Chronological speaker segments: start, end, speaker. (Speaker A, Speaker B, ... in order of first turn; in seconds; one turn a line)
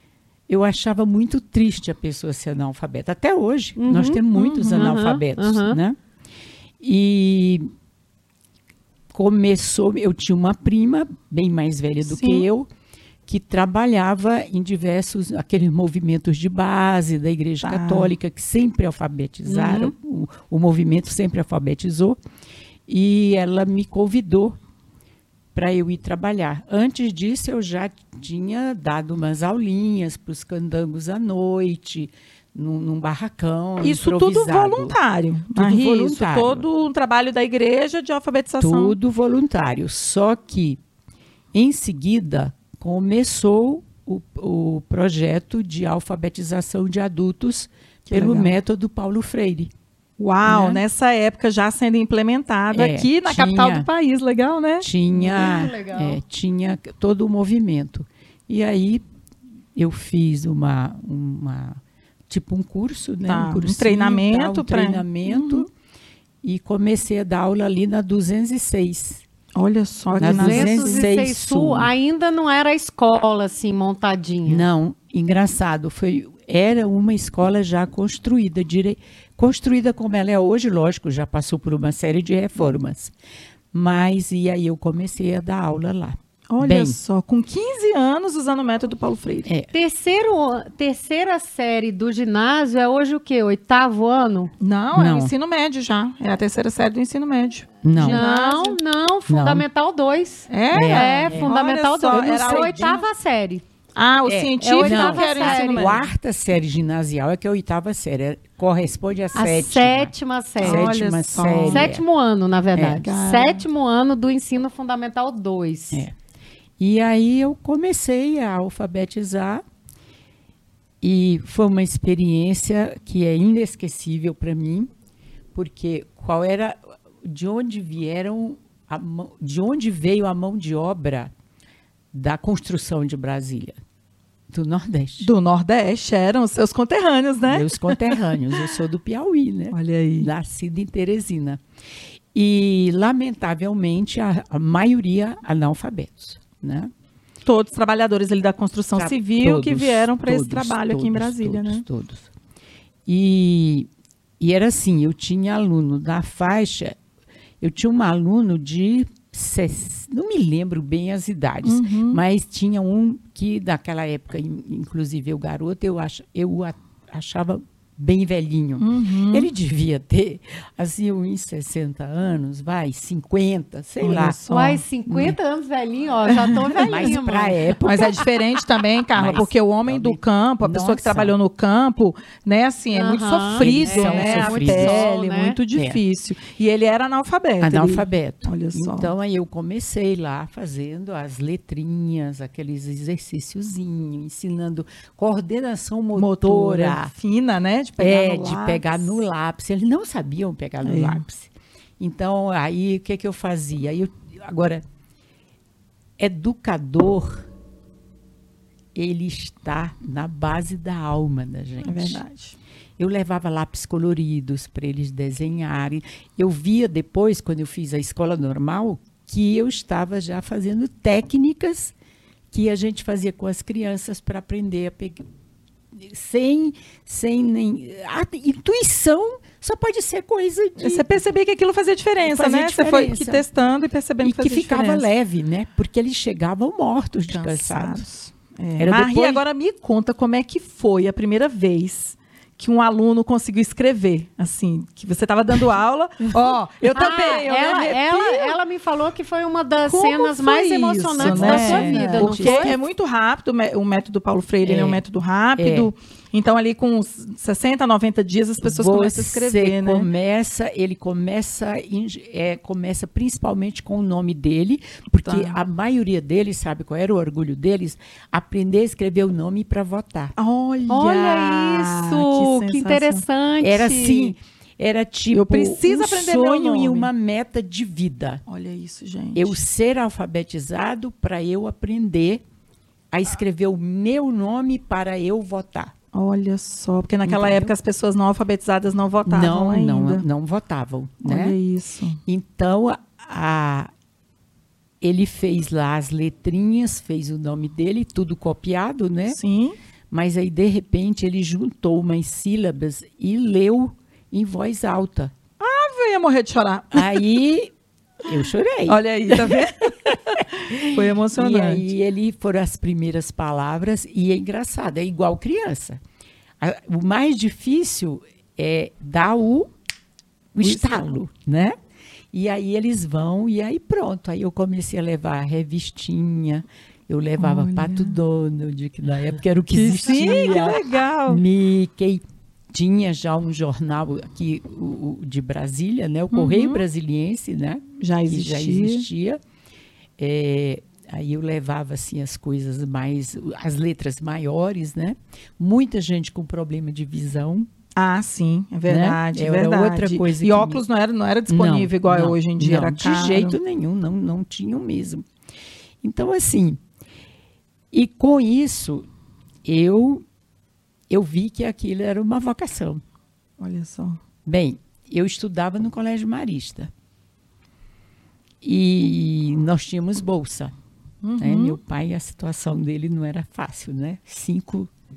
Speaker A: 0.5-6.0
Speaker B: 3.8-5.8
Speaker C: 4.3-4.9
Speaker A: 6.8-7.7
Speaker A: 9.1-12.7
Speaker C: 12.0-12.5
Speaker A: 13.2-22.2
Speaker C: 17.6-18.1
Speaker B: 19.5-19.9
Speaker A: 22.9-24.6
Speaker A: 25.5-35.0
Speaker C: 33.8-39.0
Speaker A: 35.5-36.7
Speaker A: 38.6-40.8
Speaker A: 41.5-49.7
Speaker C: 48.1-48.5
Speaker C: 50.2-54.9
Speaker A: 50.4-50.8
Speaker A: 52.7-53.9
Speaker A: 54.8-59.0
Speaker B: 55.1-56.2
Speaker A: 59.8-65.7
Speaker C: 63.3-65.7
Speaker A: 66.4-69.2
Speaker C: 69.5-71.0
Speaker A: 70.1-71.9
Speaker B: 70.2-74.7
Speaker A: 74.5-83.1
Speaker A: 83.7-87.0
Speaker C: 86.5-89.5
Speaker A: 89.5-89.7
Speaker B: 89.7-94.5
Speaker C: 94.6-98.8
Speaker A: 94.9-95.3
Speaker A: 97.8-98.2
Speaker B: 97.9-103.6
Speaker A: 99.3-99.6
Speaker C: 100.5-103.0
Speaker A: 100.7-101.6
Speaker A: 102.1-103.0
Speaker C: 104.0-106.0
Speaker A: 104.3-112.0
Speaker B: 104.6-106.0
Speaker B: 109.3-111.0
Speaker C: 110.6-111.9
Speaker B: 111.6-116.1
Speaker A: 112.8-113.0
Speaker C: 113.0-113.6
Speaker A: 116.8-119.6
Speaker A: 121.0-124.9
Speaker A: 125.5-131.3
Speaker A: 132.1-133.8
Speaker A: 134.5-135.3
Speaker C: 135.2-138.2
Speaker A: 137.5-141.6
Speaker C: 139.7-140.3
Speaker A: 142.3-146.9
Speaker C: 147.4-151.8
Speaker A: 148.9-152.3
Speaker A: 153.1-153.9
Speaker A: 154.4-157.0
Speaker A: 157.6-174.4
Speaker C: 161.6-162.2
Speaker C: 168.8-169.5
Speaker C: 174.0-175.3
Speaker B: 174.5-177.8
Speaker A: 175.1-175.3
Speaker C: 176.2-177.1
Speaker A: 176.7-178.2
Speaker C: 177.8-189.1
Speaker A: 179.1-181.3
Speaker B: 182.9-185.6
Speaker A: 183.5-185.1
Speaker A: 185.7-186.0
Speaker A: 187.6-197.1
Speaker C: 196.2-199.1
Speaker A: 198.0-204.8
Speaker C: 200.8-201.2
Speaker A: 206.2-207.5
Speaker A: 208.9-212.2
Speaker C: 211.8-212.6
Speaker A: 213.0-221.9
Speaker A: 222.5-225.2
Speaker A: 225.9-231.1
Speaker C: 230.8-235.1
Speaker A: 232.2-233.4
Speaker A: 234.2-238.0
Speaker C: 237.3-248.6
Speaker A: 238.8-239.4
Speaker B: 246.9-252.8
Speaker C: 249.8-260.1
Speaker A: 251.2-252.8
Speaker A: 254.6-255.0
Speaker A: 255.6-255.9
Speaker A: 258.6-270.3
Speaker C: 265.2-265.6
Speaker C: 270.4-273.2
Speaker B: 270.9-274.3
Speaker A: 273.6-278.4
Speaker C: 275.3-277.1
Speaker C: 278.5-279.6
Speaker A: 279.3-282.4
Speaker A: 283.1-285.9
Speaker C: 286.1-290.2
Speaker A: 287.2-287.7
Speaker A: 289.2-291.6
Speaker C: 291.2-292.2
Speaker A: 292.3-293.9
Speaker A: 295.0-299.4
Speaker C: 299.3-299.8
Speaker A: 300.1-305.3
Speaker C: 305.6-307.2
Speaker A: 306.9-307.7
Speaker A: 308.2-316.0
Speaker C: 308.9-311.8
Speaker A: 316.6-319.7
Speaker A: 320.5-321.7
Speaker C: 320.6-321.1
Speaker A: 322.3-339.4
Speaker C: 327.4-328.1
Speaker C: 329.7-331.4
Speaker C: 336.3-336.8
Speaker C: 338.0-339.1
Speaker A: 340.2-347.7
Speaker C: 347.9-353.6
Speaker A: 348.9-350.8
Speaker A: 351.5-355.2
Speaker A: 356.0-356.8
Speaker A: 357.9-359.1
Speaker A: 359.6-360.2
Speaker A: 361.1-363.0
Speaker C: 363.6-364.2
Speaker A: 364.4-366.9
Speaker A: 368.6-370.7
Speaker C: 371.2-371.8
Speaker A: 371.4-374.9